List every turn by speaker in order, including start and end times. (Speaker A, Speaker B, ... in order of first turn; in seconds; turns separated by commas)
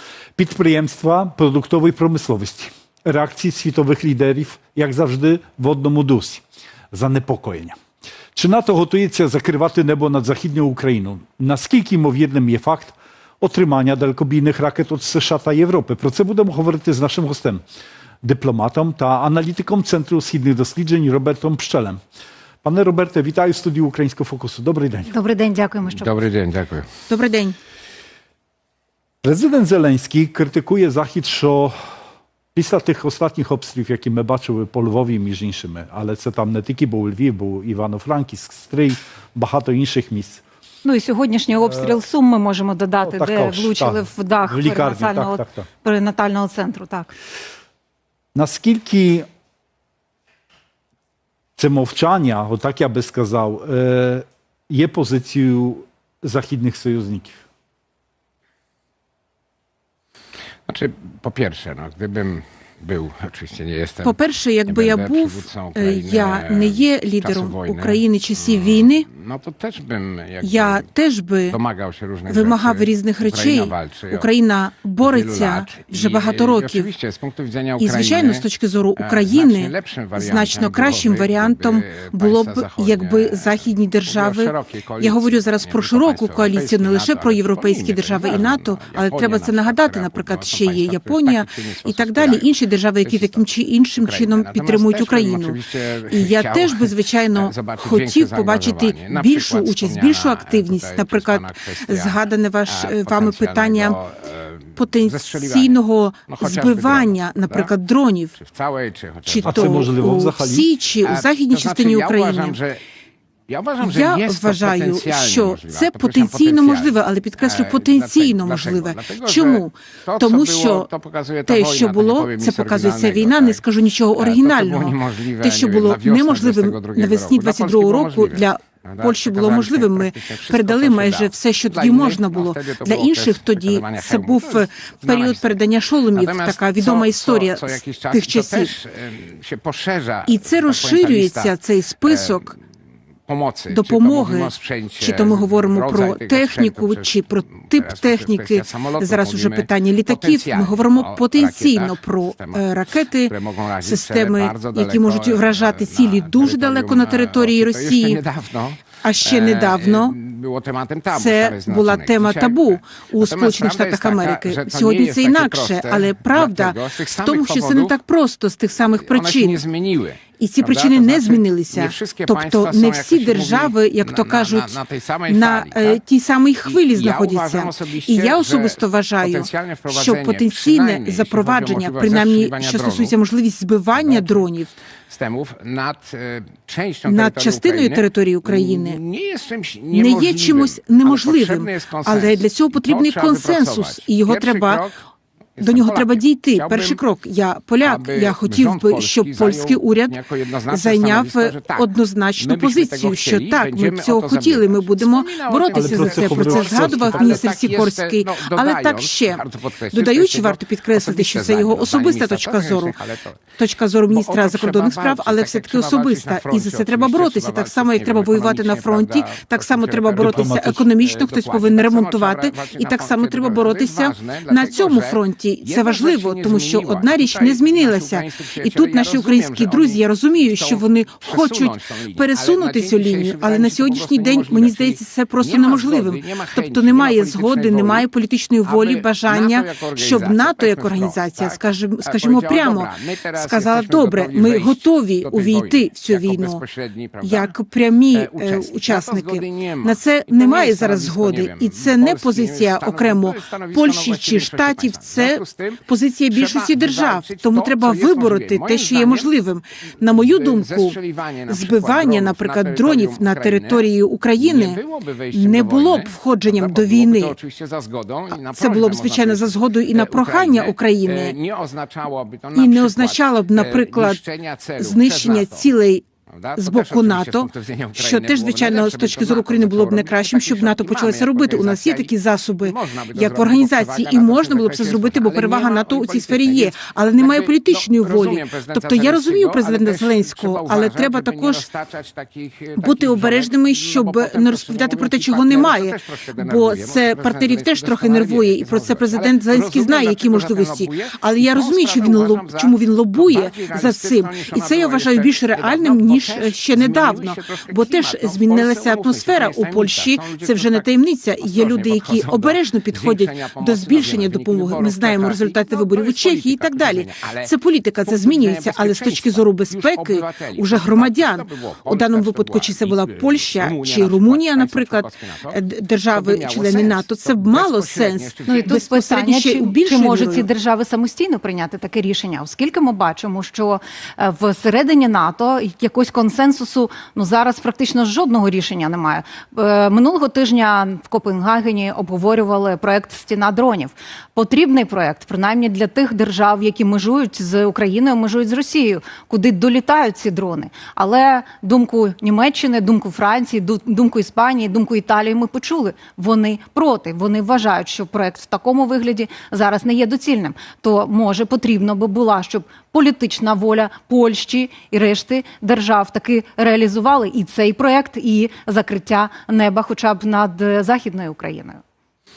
Speaker A: 0.3-7.8, Speaker A: 8.3-17.6, Speaker A: 18.2-22.0, Speaker A: 22.6-25.1, Speaker B: 25.1-26.1, Speaker C: 25.9-26.9, Speaker D: 27.1-27.6, Speaker A: 29.2-31.8, Speaker A: 32.5-40.4, Speaker B: 40.8-47.1, Speaker A: 41.6-41.9, Speaker A: 43.0-45.7, Speaker A: 48.3-49.3, Speaker A: 51.6-57.4, Speaker C: 60.7-70.8, Speaker D: 64.0-69.0, Speaker D: 70.4-71.6, Speaker C: 71.5-74.3, Speaker D: 72.3-76.9, Speaker C: 75.0-78.5, Speaker D: 77.8-95.6, Speaker C: 79.0-92.5, Speaker C: 93.0-107.7, Speaker D: 96.1-104.0, Speaker D: 104.8-108.4, Speaker C: 108.4-110.1, Speaker D: 109.2-112.6, Speaker A: 109.4-110.7, Speaker C: 111.0-112.8, Speaker C: 113.5-123.6, Speaker D: 113.8-120.9, Speaker D: 121.5-138.7, Speaker C: 124.2-135.6, Speaker C: 136.1-142.5, Speaker D: 140.3-142.5, Speaker C: 143.3-152.6, Speaker D: 143.7-158.2, Speaker C: 153.3-168.0, Speaker D: 159.0-160.1, Speaker D: 161.1-169.6, Speaker C: 169.0-176.0, Speaker D: 170.4-184.7, Speaker C: 176.6-183.1, Speaker C: 183.9-184.4, Speaker C: 185.1-195.0, Speaker D: 187.0-189.0, Speaker D: 189.9-194.8, Speaker C: 195.6-197.0, Speaker D: 195.6-200.2, Speaker C: 197.8-213.4, Speaker D: 200.7-212.9, Speaker A: 205.7-207.4, Speaker D: 213.6-246.6, Speaker C: 214.1-238.1, Speaker A: 220.2-220.8, Speaker C: 238.6-247.5, Speaker D: 247.2-264.8, Speaker C: 248.1-259.3, Speaker C: 260.0-275.7, Speaker D: 265.3-267.4, Speaker D: 268.4-271.4, Speaker D: 272.5-274.2, Speaker D: 274.8-276.0, Speaker C: 276.4-310.9, Speaker D: 276.6-291.6, Speaker D: 292.8-330.5, Speaker C: 311.4-328.8, Speaker B: 328.4-371.8